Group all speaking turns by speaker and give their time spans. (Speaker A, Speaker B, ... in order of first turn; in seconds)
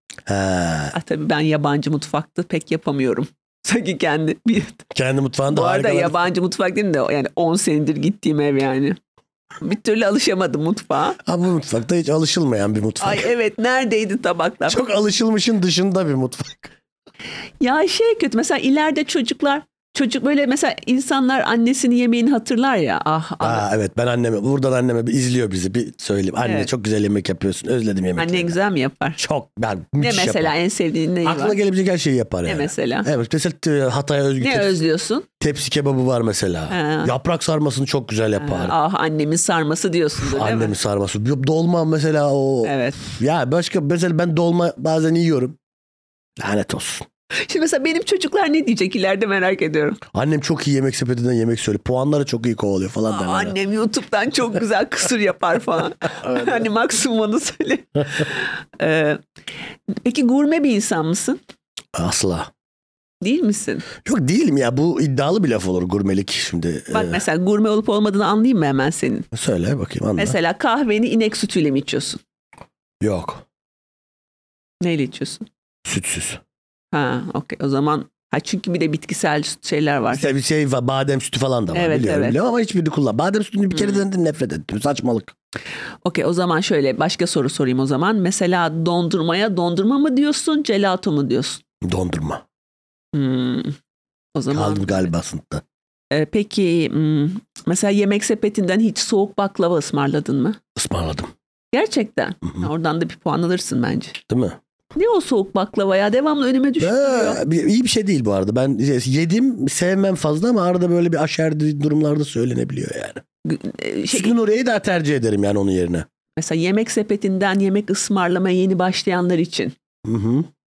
Speaker A: 0.2-0.9, 4.9-6.2, 11.2-13.3, 14.7-16.7, 23.4-28.5, 29.2-30.5, 31.2-34.8, 35.4-38.7, 40.2-45.6, 46.4-47.0, 50.1-53.5, 56.2-56.7, 61.9-62.5, 64.0-67.2, 69.3-70.4, 73.0-73.4, 75.8-76.4, 80.1-85.3, 91.8-92.4, 94.5-95.6, 100.8-101.3, 104.3-104.6, 106.8-113.2, 114.1-116.0, 120.0-120.5
Speaker B: 0.9-4.9, 5.5-9.0, 9.6-11.2, 13.0-14.8, 17.6-23.6, 26.4-26.7, 28.2-29.2, 30.0-31.6, 32.4-33.1, 34.4-35.2, 36.7-37.1, 38.4-40.7, 42.6-43.0, 47.5-50.0, 53.1-59.2, 60.0-61.4, 63.2-63.9, 66.9-69.3, 70.2-72.2, 74.8-75.5, 76.9-80.2, 81.7-82.4, 83.7-84.0, 86.0-91.6, 93.1-93.8, 94.3-95.1, 96.1-100.6, 101.7-104.2, 104.9-107.4, 113.4-114.3, 116.4-119.7